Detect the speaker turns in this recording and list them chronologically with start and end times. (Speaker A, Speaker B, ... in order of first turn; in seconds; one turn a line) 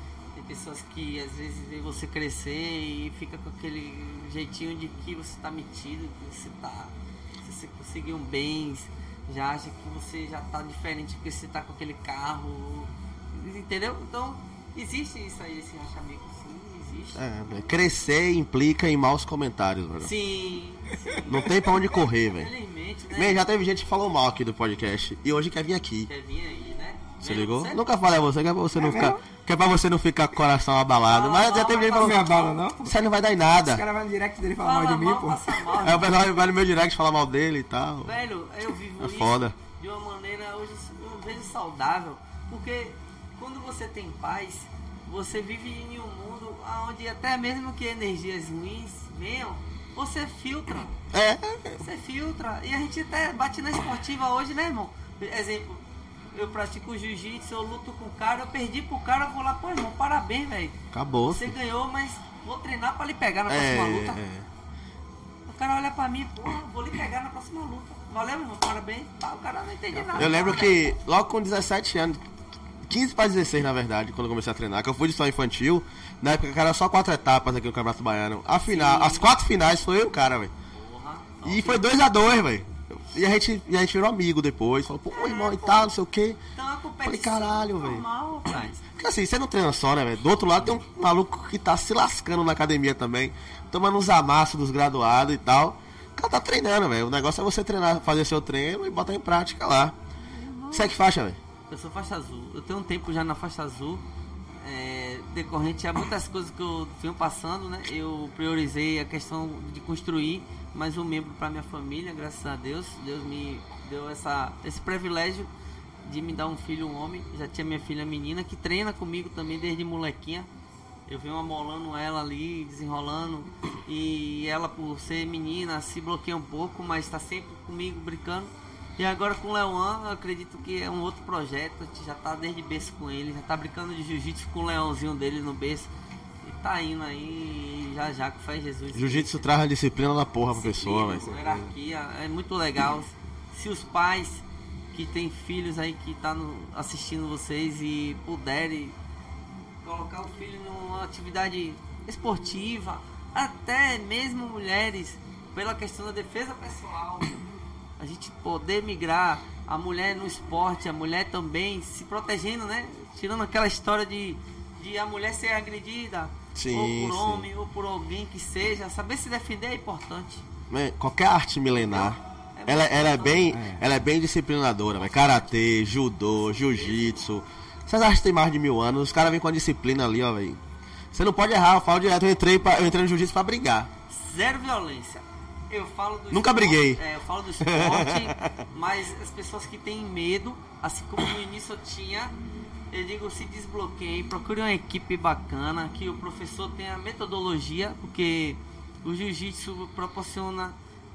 Speaker A: 0.3-17.2
Speaker B: 17.1-20.1
Speaker A: 20.0-21.5
Speaker B: 21.3-22.5
Speaker A: 22.3-23.4
Speaker B: 23.1-26.1
Speaker A: 26.1-27.8
Speaker B: 27.2-32.2
Speaker C: 28.7-29.2
Speaker A: 31.1-32.5
Speaker C: 32.0-35.7
Speaker B: 32.8-33.8
Speaker A: 34.6-36.1
Speaker B: 35.8-38.1
Speaker A: 38.0-51.0
Speaker B: 39.0-39.5
Speaker B: 51.1-51.8
Speaker A: 51.8-60.8
Speaker B: 60.9-61.5
Speaker A: 61.3-64.2
Speaker B: 63.5-64.5
Speaker A: 65.5-70.8
Speaker B: 70.1-72.2
Speaker B: 72.9-80.5
Speaker A: 78.6-79.3
Speaker A: 80.7-81.8
Speaker B: 81.4-86.4
Speaker A: 85.1-85.9
Speaker A: 86.5-89.0
Speaker B: 87.0-88.0
Speaker B: 89.0-99.9
Speaker A: 100.3-101.0
Speaker B: 100.7-101.4
Speaker A: 101.7-115.5
Speaker A: 116.0-120.5
Speaker A: 121.1-135.9
Speaker A: 136.4-139.5
Speaker B: 138.9-141.6
Speaker A: 140.5-148.9
Speaker A: 149.8-157.4
Speaker A: 158.0-170.5
Speaker B: 166.5-167.4
Speaker B: 170.7-180.6
Speaker A: 171.9-173.6
Speaker C: 173.5-173.9
Speaker A: 175.1-175.5
Speaker A: 176.6-177.2
Speaker B: 181.1-183.9
Speaker A: 184.1-192.3
Speaker B: 186.3-187.0
Speaker B: 187.6-188.5
Speaker A: 192.9-200.8